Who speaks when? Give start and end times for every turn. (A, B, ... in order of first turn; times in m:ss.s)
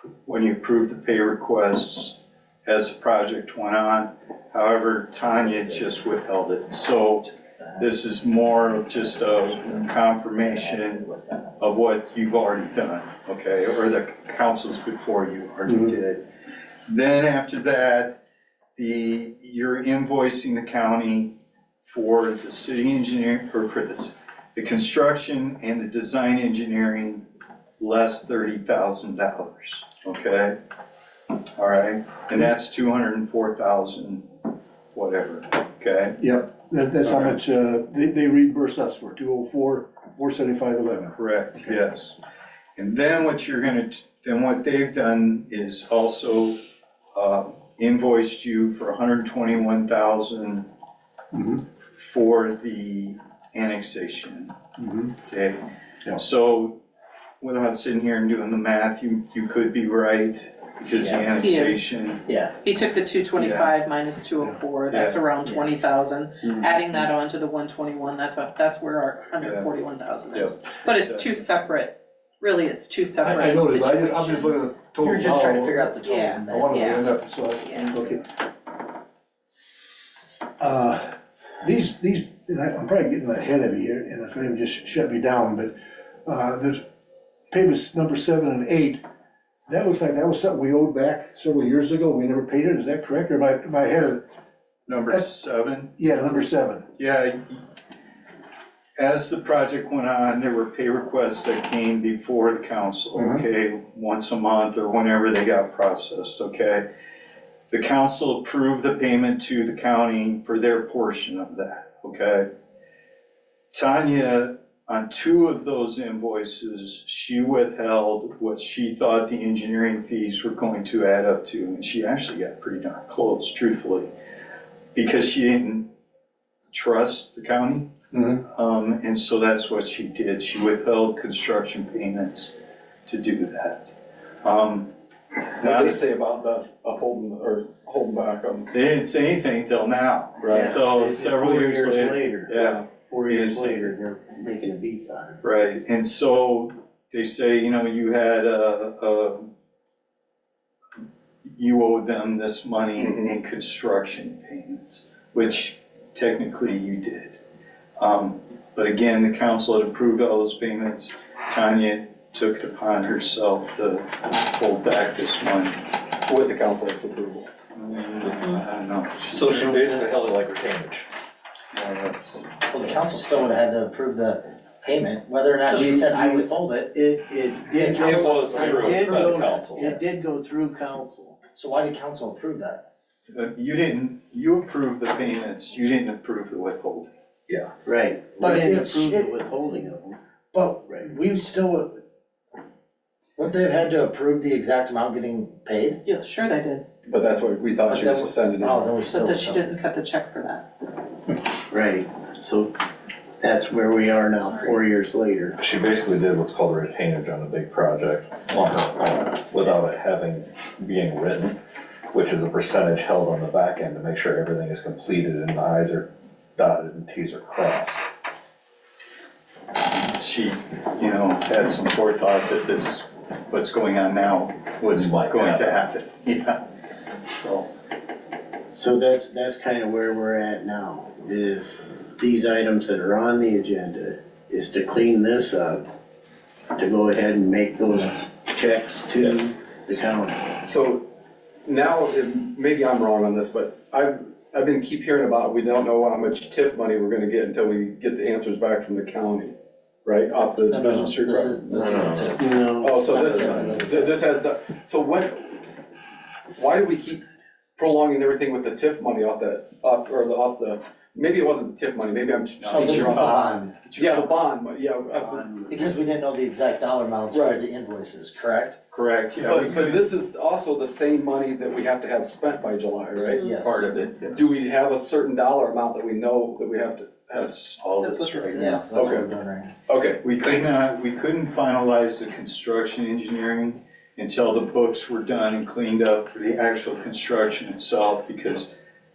0:00.2-0:16.2 A
0:05.5-0:05.8 B
0:08.7-0:09.9 B
0:10.4-0:11.4 B
0:16.9-0:18.2 A
0:18.8-0:21.3 A
0:21.9-0:27.2 A
0:27.8-0:30.6 A
0:31.6-0:34.3 A
0:34.9-0:36.2 A
0:36.2-0:41.2 C
0:37.0-0:37.4 A
0:41.1-0:42.2 A
0:42.8-0:46.6 A
0:47.2-0:50.6 A
0:51.3-0:51.6 C
0:52.0-0:54.6 A
0:54.8-0:55.2 C
0:55.3-0:55.6 A
0:56.1-0:56.8 A
0:57.4-1:02.2 A
1:01.0-1:01.3 B
1:01.4-1:01.9 D
1:02.3-1:02.5 B
1:02.6-1:15.4 D
1:03.4-1:03.7 A
1:04.9-1:05.2 A
1:09.4-1:09.7 A
1:10.3-1:11.4 A
1:13.2-1:18.3 C
1:15.0-1:17.2 B
1:16.0-1:18.0 D
1:20.6-1:26.8 C
1:27.5-1:29.0 C
1:29.7-1:34.2 C
1:34.9-1:35.9 A
1:36.0-1:36.9 C
1:37.0-1:37.6 A
1:39.0-1:46.8 A
1:43.2-1:43.5 C
1:47.7-1:52.5 A
1:53.7-2:04.1 A
2:04.9-2:05.9 A
2:06.7-2:07.9 A
2:08.1-2:08.4 C
2:08.4-2:12.5 A
2:13.1-2:13.9 A
2:14.4-2:14.9 A
2:15.6-2:16.0 A
2:15.6-2:18.7 E
2:18.7-2:23.9 A
2:20.4-2:20.8 E
2:20.5-2:22.5 F
2:22.6-2:22.8 E
2:23.1-2:25.4 F
2:25.4-2:29.5 A
2:31.5-2:37.4 A
2:33.0-2:33.3 E
2:38.0-2:45.8 A
2:46.3-2:47.5 E
2:47.7-2:49.8 A
2:49.3-2:51.1 G
2:51.7-2:52.5 A
2:52.7-2:56.9 B
2:55.7-3:01.4 F
2:57.8-3:00.0 B
2:57.9-3:00.0 G
3:01.6-3:02.8 B
3:03.3-3:07.1 A
3:07.8-3:10.2 F
3:08.4-3:09.3 B
3:10.5-3:12.0 B
3:10.8-3:11.1 F
3:13.4-3:16.0 B
3:16.0-3:16.8 D
3:17.1-3:19.0 E
3:17.9-3:19.7 B
3:19.0-3:20.7 D
3:21.7-3:22.7 F
3:23.4-3:25.6 F
3:25.6-3:31.6 G
3:32.1-3:38.0 G
3:40.1-3:46.6 A
3:44.9-3:45.8 G
3:47.3-3:47.7 A
3:48.7-3:55.8 F
3:56.8-4:00.5 F
4:00.6-4:01.0 E
4:01.7-4:09.5 E
4:10.1-4:11.9 E
4:10.6-4:14.2 B
4:12.0-4:12.2 G
4:12.4-4:13.8 F
4:12.8-4:15.6 E
4:16.6-4:17.2 E
4:17.8-4:25.5 E
4:22.6-4:24.3 A
4:22.7-4:23.7 B
4:25.1-4:25.8 F
4:25.7-4:28.8 B
4:27.3-4:27.6 E
4:28.9-4:30.0 A
4:29.4-4:33.4 E
4:33.3-4:33.6 D
4:33.4-4:33.9 B
4:33.6-4:34.4 A
4:34.3-4:37.5 E
4:37.3-4:38.9 A
4:38.0-4:38.8 D
4:38.5-4:39.7 B
4:38.9-4:39.3 E
4:39.9-4:40.8 E
4:40.2-4:48.7 A